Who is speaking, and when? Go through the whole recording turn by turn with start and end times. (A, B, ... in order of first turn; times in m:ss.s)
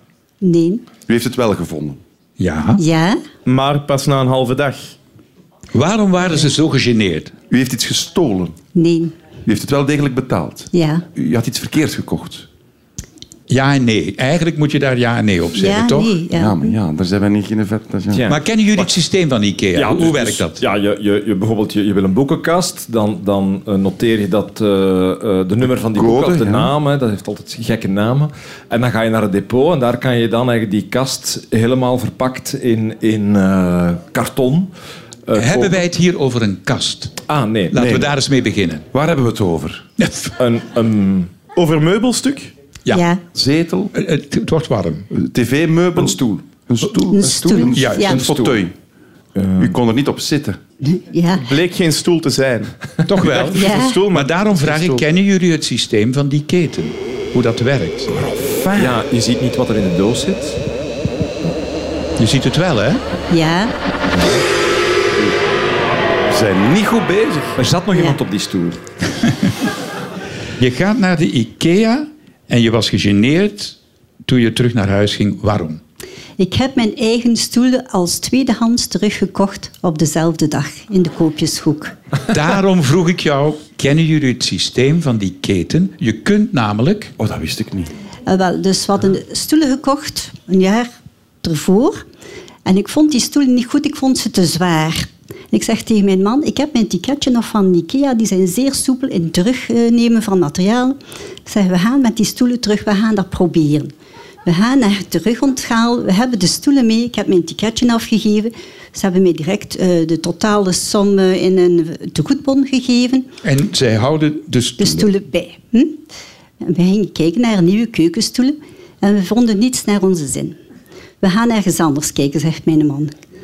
0:00.4-0:00.9 A
0:01.0-0:02.0 B
0:02.4-0:02.8 C
0:02.8-0:03.2 A
0:03.4-0:04.9 D
0:05.7-0:07.3 C
0:07.5-0:08.6 B
0:08.7-0:09.1 A
0:09.4-0:12.5 B
0:10.7-0:11.0 A
0:13.5-0:16.1 C
0:15.5-0:16.8 A
0:16.3-0:18.2 B
0:18.1-0:18.9 E
0:18.3-0:20.6 C
0:19.7-0:34.7 E
0:25.9-0:26.7 B
0:35.3-0:35.8 E
0:35.3-0:37.2 C
0:37.3-0:37.9 E
0:37.7-0:38.9 C
0:37.7-0:38.1 B
0:38.9-0:39.8 B
0:40.0-0:40.3 C
0:40.4-0:41.3 E
0:41.6-0:42.5 D
0:42.9-0:43.2 A
0:43.3-0:43.9 B
0:43.9-0:45.1 C
0:45.1-0:48.7 B
0:46.0-0:46.4 E
0:47.1-0:48.2 A
0:47.2-0:48.6 E
0:47.7-0:48.3 C
0:49.4-0:49.8 E
0:49.6-0:50.6 B
0:50.8-0:51.4 A
0:51.4-0:55.0 D
0:53.0-0:58.1 C
0:53.6-0:54.0 A
0:58.1-0:59.0 B
0:58.7-1:00.6 E
1:02.2-1:03.0 C
1:03.3-1:03.7 A
1:06.3-1:07.6 B
1:07.6-1:08.8 E
1:10.6-1:15.8 C
1:16.4-1:21.9 A
1:22.3-1:27.1 C
1:27.2-1:27.9 B
1:28.3-1:30.9 A
1:31.4-1:32.0 A
1:32.6-1:43.9 A
1:44.4-1:53.3 A
1:53.4-1:55.1 C
1:54.8-1:56.0 A
1:56.6-2:00.6 A
2:01.2-2:03.1 A